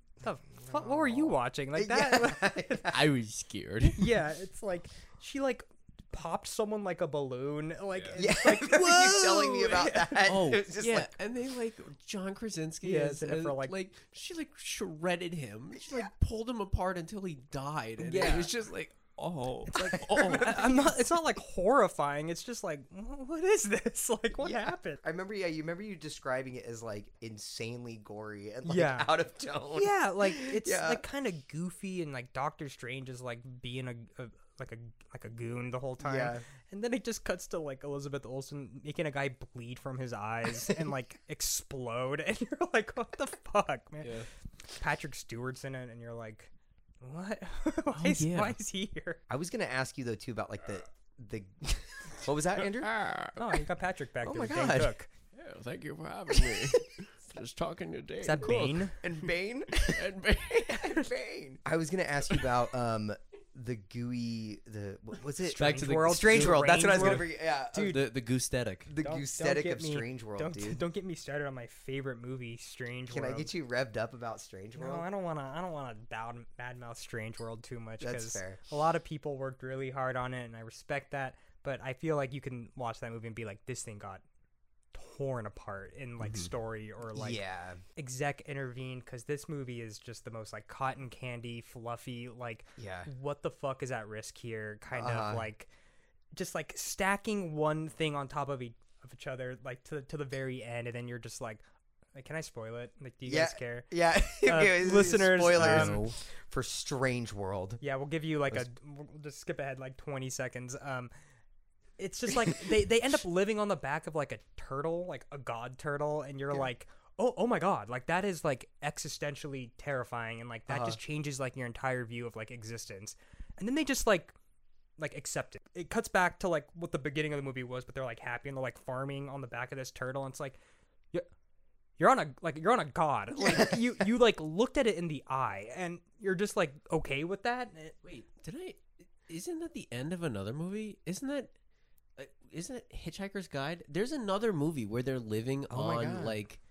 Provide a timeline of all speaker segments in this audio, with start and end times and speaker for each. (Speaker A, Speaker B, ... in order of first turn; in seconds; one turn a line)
Speaker A: 0.2-2.9
Speaker B: 0.6-3.0
Speaker C: 2.9-4.1
Speaker A: 3.9-10.3
Speaker B: 8.2-11.1
Speaker C: 10.2-20.8
Speaker A: 12.8-13.7
Speaker B: 15.8-16.1
Speaker A: 18.0-18.5
Speaker B: 18.2-18.4
Speaker A: 19.7-25.0
Speaker B: 19.9-20.9
Speaker B: 24.4-31.0
Speaker A: 28.6-29.1
Speaker A: 29.7-44.2
Speaker B: 36.0-36.5
Speaker C: 44.0-44.3
Speaker A: 44.8-49.2
Speaker C: 47.9-48.5
Speaker B: 49.3-52.9
Speaker C: 52.6-53.6
Speaker A: 53.4-55.1
Speaker C: 54.2-59.1
Speaker B: 56.3-57.0
Speaker A: 58.2-59.0
Speaker B: 59.0-68.0
Speaker C: 59.8-61.0
Speaker A: 65.4-68.0
Speaker C: 65.6-68.9
Speaker B: 68.9-70.8
Speaker A: 69.0-73.5
Speaker B: 73.1-75.0
Speaker A: 74.8-84.2
Speaker B: 78.0-78.6
Speaker A: 84.9-87.4
Speaker C: 86.2-86.5
Speaker B: 87.1-87.8
Speaker A: 88.0-95.7
Speaker B: 92.8-93.1
Speaker B: 94.9-95.5
Speaker A: 96.3-101.6
Speaker A: 102.1-103.9
Speaker B: 103.2-107.8
Speaker A: 104.4-106.0
Speaker C: 105.5-106.2
Speaker A: 107.8-111.1
Speaker A: 112.0-124.3
Speaker B: 120.7-121.0
Speaker A: 125.0-130.6
Speaker A: 132.0-138.0
Speaker B: 133.4-133.8
Speaker C: 138.0-141.5
Speaker C: 142.2-146.6
Speaker B: 145.7-146.4